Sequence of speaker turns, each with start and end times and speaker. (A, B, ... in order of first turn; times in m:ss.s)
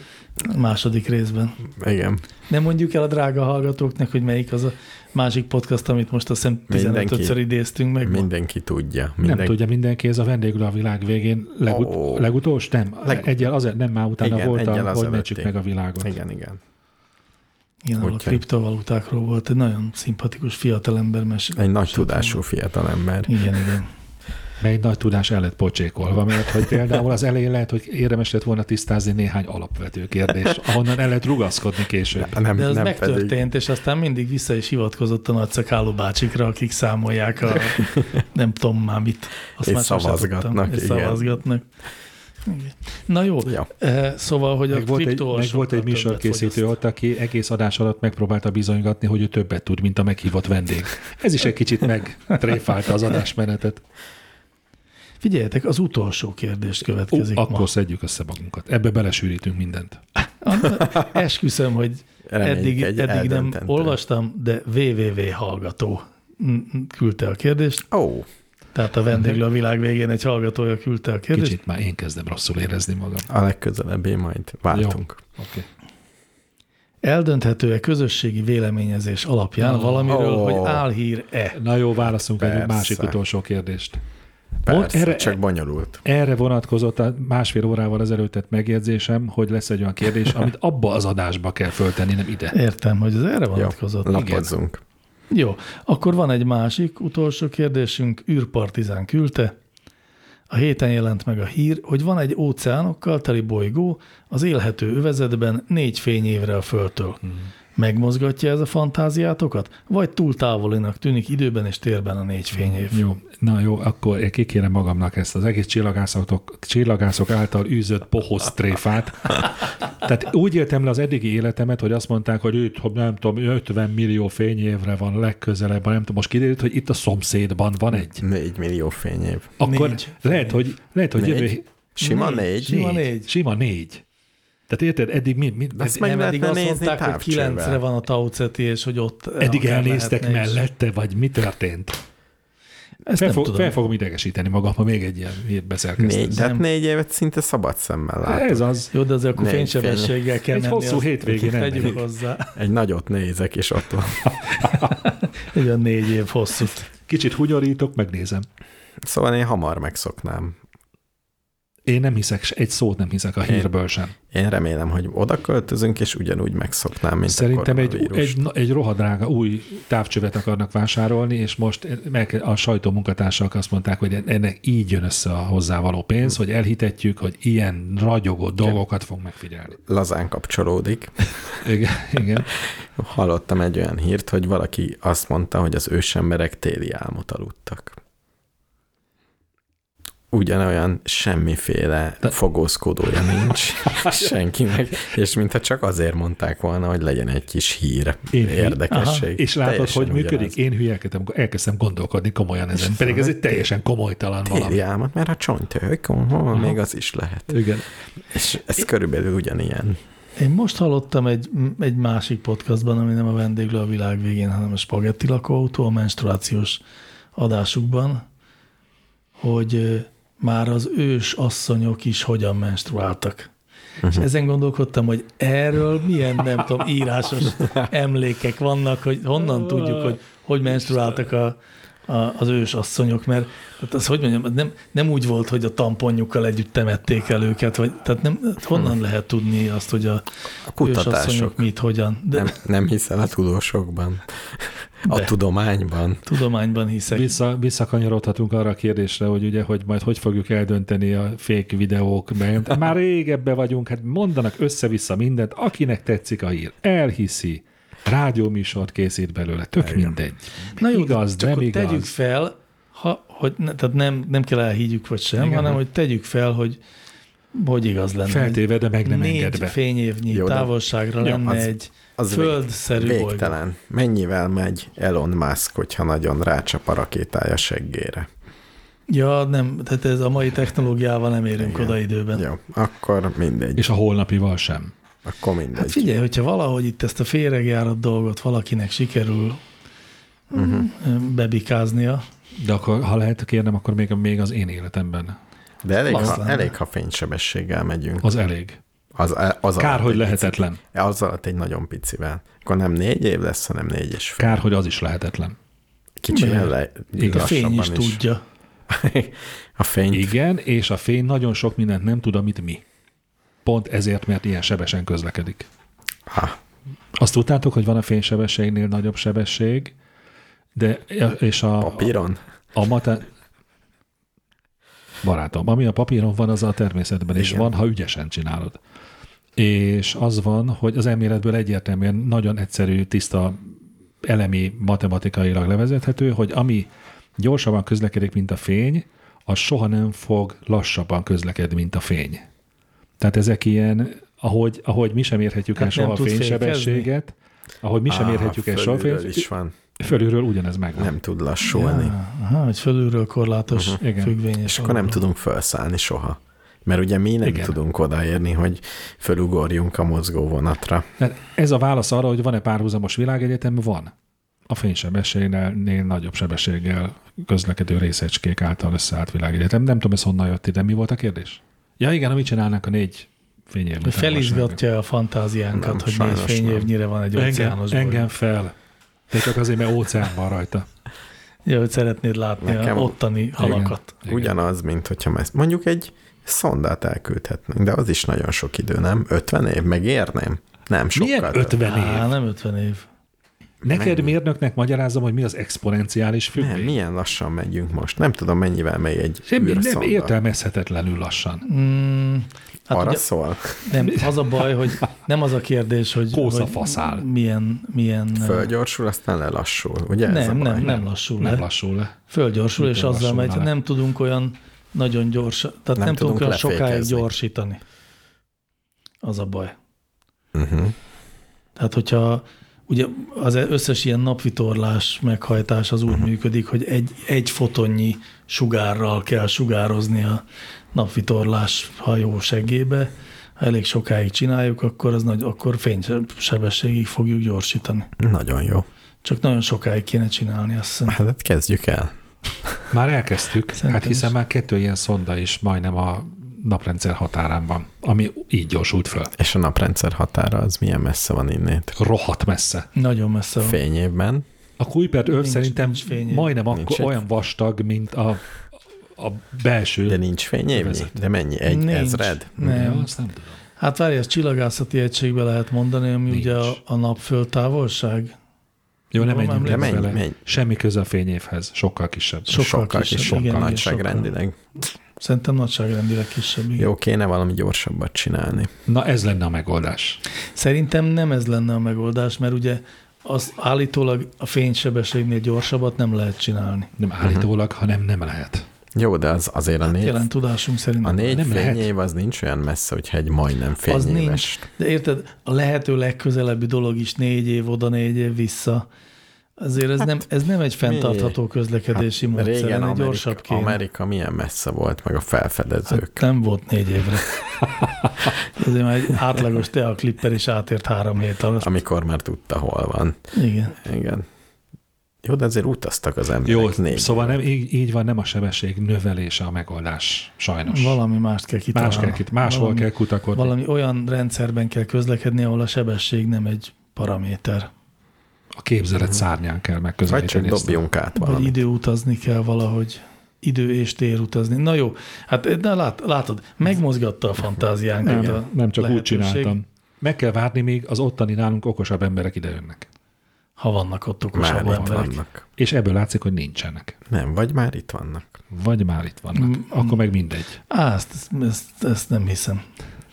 0:00.4-0:01.6 A
0:01.7-0:02.2 B
0:02.5-0:08.3 A
0:06.7-0:07.4 B
0:08.0-0:09.6 B
0:09.2-0:16.1 C
0:11.7-0:12.3 B
0:13.0-0:13.5 B
0:14.2-0:16.6 B
0:17.8-0:22.4 A
0:18.0-0:18.4 B
0:21.6-0:23.6 B
0:23.3-0:23.9 A
0:24.6-0:32.4 C
0:32.1-0:33.4 B
0:32.6-0:41.6 A
0:39.6-0:41.4 B
0:42.4-0:46.7 A
0:43.4-0:43.7 B
0:44.7-0:53.8 C
0:55.2-0:57.7 A
0:57.1-1:00.0 C
1:00.4-1:07.8 A
1:02.3-1:04.0 B
1:07.9-1:08.3 B
1:08.7-1:11.6 A
1:11.3-1:13.3 C
1:13.3-1:15.2 B
1:14.7-1:15.7 C
1:17.0-1:21.6 A
1:19.6-1:20.1 C
1:20.1-1:20.8 B
1:21.5-1:24.0 C
1:22.4-1:23.2 B
1:24.6-1:26.0 B
1:24.6-1:25.4 C
1:26.0-1:32.5 C
1:32.5-1:34.2 A
1:33.5-1:34.8 B
1:34.1-1:34.5 C
1:35.3-1:39.5 A
1:40.5-1:47.2 A
1:47.8-1:53.0 A
1:52.5-2:08.2 C
2:07.9-2:09.6 B
2:09.6-2:11.6 C
2:09.6-2:10.6 A
2:11.2-2:12.8 B
2:12.0-2:13.3 A
2:12.7-2:14.0 C
2:14.7-2:16.1 C
2:15.7-2:17.8 B
2:16.0-2:20.6 A
2:19.4-2:22.0 C
2:23.0-2:23.7 A
2:23.2-2:26.4 C
2:26.0-2:28.6 B
2:26.3-2:26.6 A
2:28.2-2:28.9 C
2:28.9-2:32.5 A
2:29.3-2:30.2 B
2:30.5-2:32.0 C
2:32.5-2:34.3 B
2:34.6-2:35.0 C
2:35.4-2:36.8 A
2:37.1-2:38.4 C
2:39.0-2:40.6 B
2:41.9-2:44.1 C
2:43.4-2:43.7 B
2:44.3-2:48.4 B
2:47.2-2:59.8 C
2:59.8-3:01.6 B
3:01.6-3:02.5 C
3:03.0-3:08.0 B
3:10.3-3:20.6 B
3:13.9-3:14.3 C
3:18.3-3:18.8 C
3:18.9-3:19.2 A
3:19.4-3:24.8 C
3:22.7-3:23.6 B
3:24.4-3:27.7 B
3:27.5-3:27.8 C
3:28.3-3:30.0 B
3:30.4-3:36.8 A
3:37.4-3:38.2 A
3:39.4-3:43.5 A
3:44.0-3:44.3 B
3:44.1-4:00.2 A
3:49.7-3:50.1 C
4:00.7-4:01.6 B
4:00.8-4:02.6 A
4:02.3-4:06.3 B
4:05.0-4:05.3 A
4:06.2-4:07.3 A
4:07.1-4:22.1 C
4:19.8-4:20.2 B
4:20.8-4:26.8 A
4:25.4-4:25.8 C
4:27.5-4:33.5 A
4:28.2-4:29.8 C
4:30.3-4:38.3 B
4:39.1-4:42.4 A
4:41.6-4:43.9 B
4:43.8-4:44.9 C
4:45.2-4:46.1 B
4:45.8-4:49.6 A
4:50.5-4:52.2 A
4:50.5-4:50.9 B
4:52.6-4:55.4 C
4:55.8-4:58.3 B
4:56.1-4:56.7 A
4:58.2-4:58.8 C
4:59.1-5:04.6 B
4:59.8-5:00.8 C
5:04.4-5:05.6 C
5:06.2-5:08.2 B
5:06.3-5:08.4 A
5:07.2-5:07.5 C
5:08.9-5:10.3 B
5:10.1-5:12.8 C
5:13.6-5:15.7 C
5:16.3-5:16.6 B
5:17.2-5:19.9 C
5:20.8-5:22.1 C
5:21.8-5:22.4 B
5:22.7-5:23.3 C
5:25.2-5:28.8 C
5:27.3-5:27.7 B
5:29.6-5:33.7 C
5:34.2-5:42.4 C
5:43.2-5:49.4 C
5:45.8-5:47.1 A
5:48.1-5:49.7 B
5:50.0-5:51.1 C
5:51.0-5:52.1 B
5:51.6-5:55.2 A
5:53.7-5:54.0 B
5:54.0-5:54.3 C
5:54.6-6:01.1 B
5:57.4-5:57.8 C
6:01.2-6:04.1 C
6:04.7-6:14.8 C
6:14.0-6:18.3 A
6:15.7-6:16.9 B
6:17.3-6:18.7 C
6:19.3-6:20.8 C
6:21.6-6:24.1 A
6:22.6-6:31.8 B
6:23.6-6:24.5 C
6:31.1-6:32.3 C
6:31.8-6:33.0 A
6:33.8-6:34.3 B
6:33.8-6:36.9 C
6:36.6-6:40.3 B
6:39.5-6:41.6 C
6:41.6-6:43.2 A
6:42.9-6:43.9 B
6:43.8-6:48.7 A
6:46.3-6:47.2 C
6:48.3-6:51.0 B
6:50.2-6:51.6 A
6:50.8-6:52.1 C
6:52.3-6:57.8 A
6:52.8-6:53.7 C
6:56.0-6:57.3 B
6:59.2-6:59.7 A
7:00.5-7:00.9 B
7:01.8-7:10.4 A
7:10.9-7:18.1 A
7:18.2-7:18.9 B
7:19.2-7:21.2 A
7:21.1-7:22.1 B
7:22.9-7:29.3 C
7:23.8-7:24.3 A
7:29.4-7:32.0 B
7:32.0-7:32.9 C
7:32.9-7:33.8 A
7:33.6-7:34.4 B
7:34.8-7:38.4 C
7:35.2-7:36.5 A
7:36.7-7:37.2 B
7:39.2-7:40.2 C
7:40.0-7:42.5 B
7:40.7-7:41.1 C
7:41.6-7:43.2 A
7:42.6-7:43.6 C
7:43.8-7:48.3 A
7:46.3-7:46.8 C
7:49.1-7:53.8 C
7:49.2-7:50.0 A
7:49.6-7:50.4 B
7:52.5-7:54.6 B
7:52.5-7:54.3 A
7:55.2-7:56.9 A
7:56.8-7:58.7 B
7:58.9-8:00.2 C
8:00.6-8:06.9 A
8:07.0-8:08.6 C
8:07.2-8:07.5 B
8:08.9-8:10.3 B
8:09.9-8:11.4 A
8:11.0-8:14.7 B
8:11.3-8:11.9 C
8:13.9-8:18.8 A
8:19.6-8:23.8 A
8:20.8-8:21.4 B
8:22.3-8:26.2 B
8:25.9-8:27.3 A
8:28.6-8:31.7 A
8:31.6-8:33.2 B
8:33.3-8:33.8 A
8:33.7-8:34.2 B
8:35.2-8:37.4 B
8:36.4-8:41.0 C
8:40.7-8:47.7 A
8:41.7-8:43.5 C
8:48.6-8:50.8 C
8:50.0-8:51.6 B
8:51.1-8:59.6 A
8:58.0-9:02.8 C
9:03.6-9:05.2 A
9:04.3-9:05.4 B
9:04.7-9:05.0 C
9:05.6-9:07.0 C
9:07.1-9:08.4 B
9:08.5-9:10.6 C
9:09.4-9:10.0 A
9:10.7-9:12.6 A